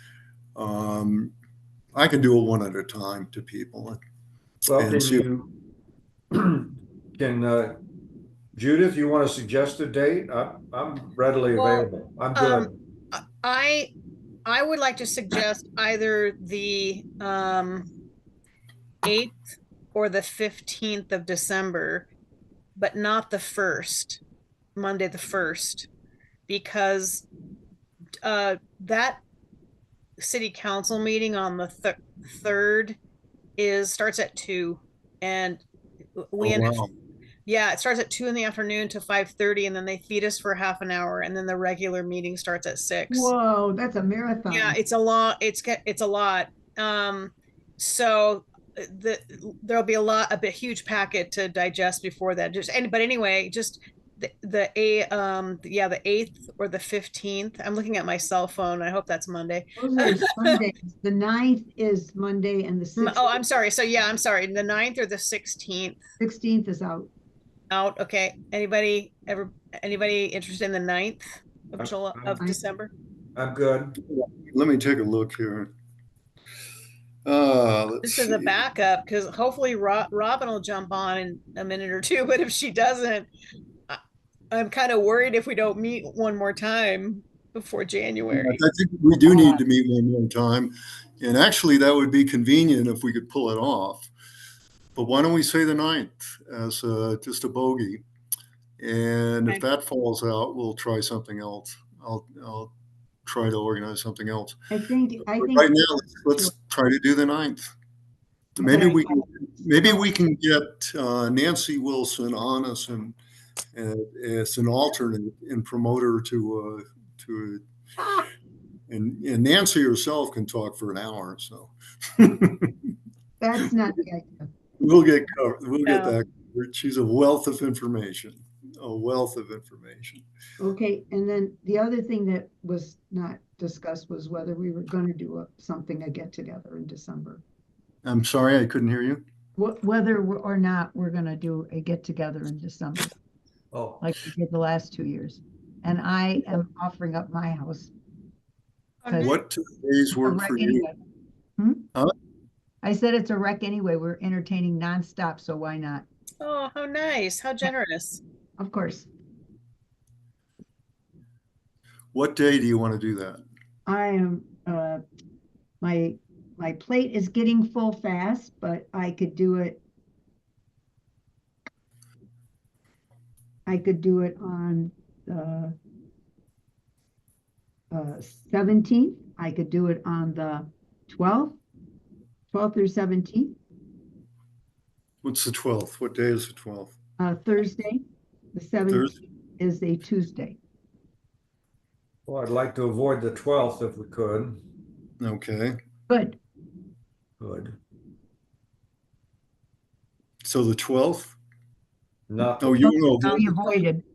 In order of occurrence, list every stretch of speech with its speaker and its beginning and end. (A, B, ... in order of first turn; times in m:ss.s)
0:00.6-0:01.3 A
0:01.9-0:04.0 A
0:04.7-0:05.5 B
0:04.8-0:05.3 A
0:06.3-0:07.8 B
0:08.6-0:12.8 B
0:11.5-0:13.9 C
0:14.4-0:17.9 C
0:19.0-0:19.4 C
0:19.9-0:22.1 C
0:22.8-0:24.2 C
0:24.8-0:25.9 C
0:26.5-0:27.3 C
0:28.2-0:29.2 C
0:30.2-0:33.0 C
0:33.6-0:35.6 C
0:36.2-0:36.8 C
0:36.4-0:36.9 A
0:37.5-0:43.3 C
0:43.1-0:44.8 D
0:44.5-1:00.6 C
0:59.8-1:03.4 D
1:03.0-1:06.0 C
1:06.2-1:07.1 D
1:07.7-1:12.9 C
1:11.8-1:12.4 B
1:13.4-1:14.0 B
1:14.0-1:15.7 A
1:17.3-1:18.5 A
1:18.0-1:23.3 C
1:24.5-1:28.6 C
1:28.3-1:34.1 A
1:29.3-1:29.6 D
1:35.0-1:38.0 A
1:38.8-1:42.7 A
1:43.2-1:44.6 A
1:44.7-1:46.5 D
1:45.3-1:47.7 A
1:48.6-1:53.2 A
1:48.6-1:50.0 D
1:53.8-1:57.6 A
1:58.9-2:02.7 A
2:03.4-2:04.5 D
2:04.8-2:10.2 A
2:05.8-2:06.2 C
2:10.6-2:17.4 D
2:18.0-2:19.2 A
2:19.6-2:23.1 D
2:23.7-2:24.0 B
2:24.0-2:27.9 D
2:29.0-2:29.4 C
2:29.1-2:29.4 D
2:29.2-2:30.9 A
2:30.2-2:30.9 D
2:31.6-2:31.9 D
2:32.8-2:36.0 D
2:36.4-2:38.2 C
2:38.6-2:39.1 D
2:42.1-2:43.4 A
2:43.9-2:45.0 D
2:45.8-2:49.8 D
2:53.7-2:55.8 D
2:57.9-3:01.6 D
3:02.5-3:03.6 D
3:05.2-3:06.9 A
3:07.2-3:08.0 D
3:08.6-3:10.6 D
3:08.9-3:09.1 A
3:12.3-3:14.6 B
3:15.2-3:15.8 A
3:16.1-3:16.4 D
3:17.4-3:17.8 B
3:20.4-3:21.4 A
3:22.3-3:23.1 B
3:22.6-3:23.4 A
3:23.2-3:23.8 C
3:23.2-3:24.0 D